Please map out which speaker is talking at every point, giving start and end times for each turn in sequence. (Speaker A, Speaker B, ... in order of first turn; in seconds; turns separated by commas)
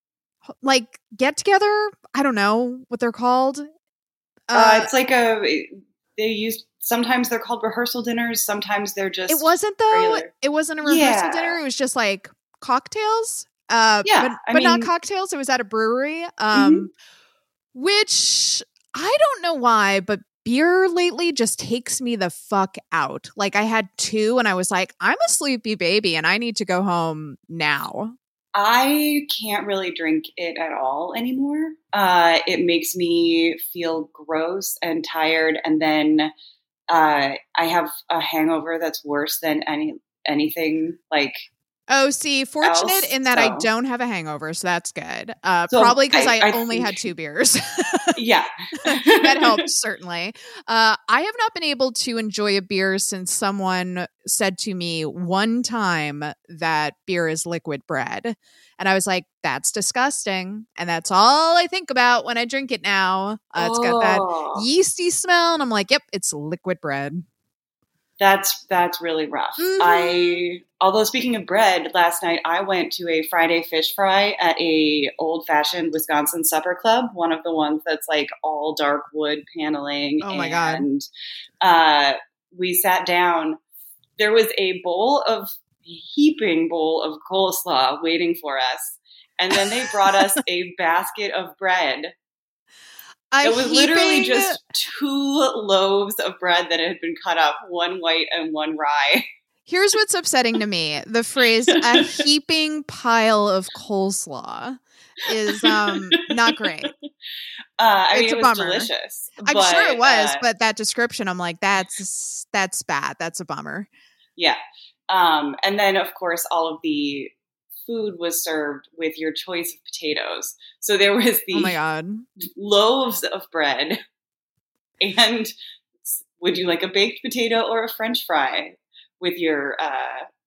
Speaker A: 0.6-3.7, Speaker A: 4.5-4.9, Speaker B: 4.5-10.3, Speaker A: 9.3-16.9, Speaker B: 10.8-11.6, Speaker B: 14.0-14.9, Speaker B: 16.5-16.9, Speaker A: 17.7-28.1, Speaker B: 28.5-36.3, Speaker B: 36.9-41.5, Speaker A: 41.9-48.1, Speaker B: 42.6-43.7, Speaker B: 45.7-47.0, Speaker B: 48.1-49.6, Speaker A: 48.8-67.2, Speaker B: 63.6-64.7, Speaker B: 68.2-81.0, Speaker A: 69.6-70.4, Speaker A: 80.2-80.8, Speaker B: 81.6-83.6, Speaker B: 84.2-92.1, Speaker A: 93.3-94.6, Speaker B: 93.4-99.2, Speaker A: 99.7-106.9, Speaker B: 101.7-102.2, Speaker B: 105.4-106.9, Speaker B: 107.8-110.4, Speaker A: 108.1-108.9, Speaker A: 109.4-113.9, Speaker B: 114.4-117.3, Speaker B: 117.8-121.8, Speaker A: 121.5-122.3, Speaker B: 122.4-124.0, Speaker B: 125.0-125.5, Speaker B: 126.1-130.3